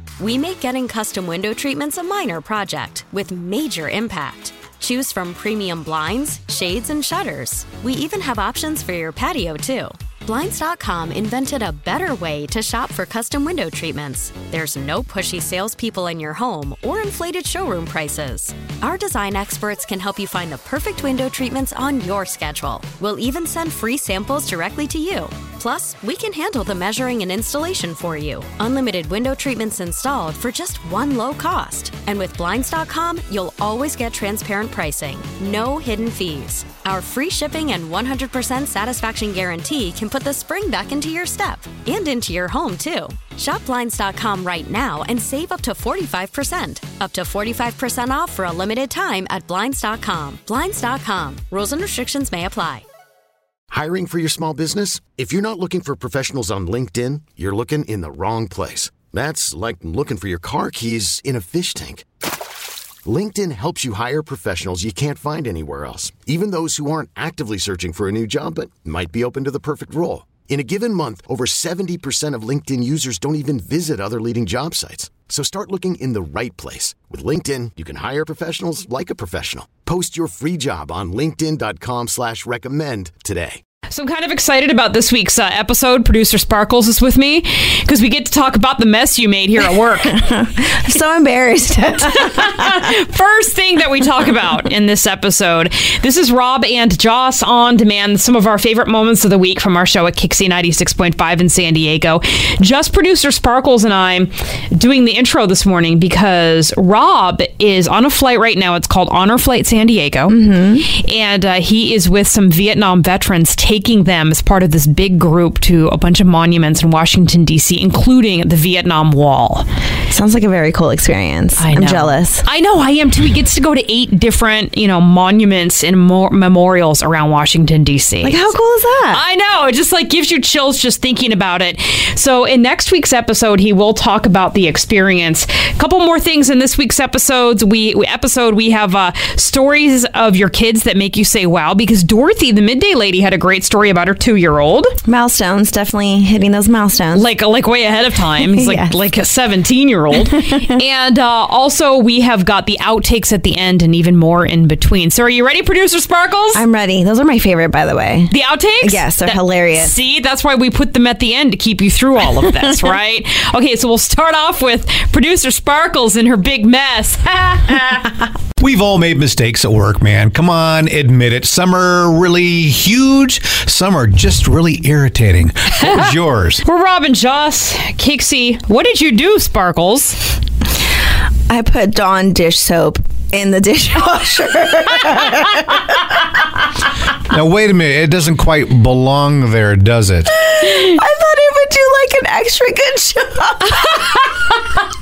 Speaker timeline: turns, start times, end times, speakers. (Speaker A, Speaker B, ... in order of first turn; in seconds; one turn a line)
Speaker A: 0.2-52.8
Speaker B: 53.7-62.0
Speaker B: 63.0-83.6
Speaker C: 83.9-90.2
Speaker D: 90.1-92.8
Speaker C: 92.1-119.7
Speaker D: 110.3-110.9
Speaker D: 120.1-122.5
Speaker C: 121.6-128.5
Speaker D: 128.2-129.2
Speaker C: 129.1-144.9
Speaker D: 145.1-147.3
Speaker C: 147.1-156.6
Speaker D: 148.4-148.9
Speaker D: 156.5-159.9
Speaker C: 158.3-168.1
Speaker E: 168.6-176.6
Speaker C: 176.6-180.3
Speaker D: 181.5-186.2
Speaker E: 187.3-190.3
Speaker D: 190.5-194.1
Speaker C: 193.8-194.3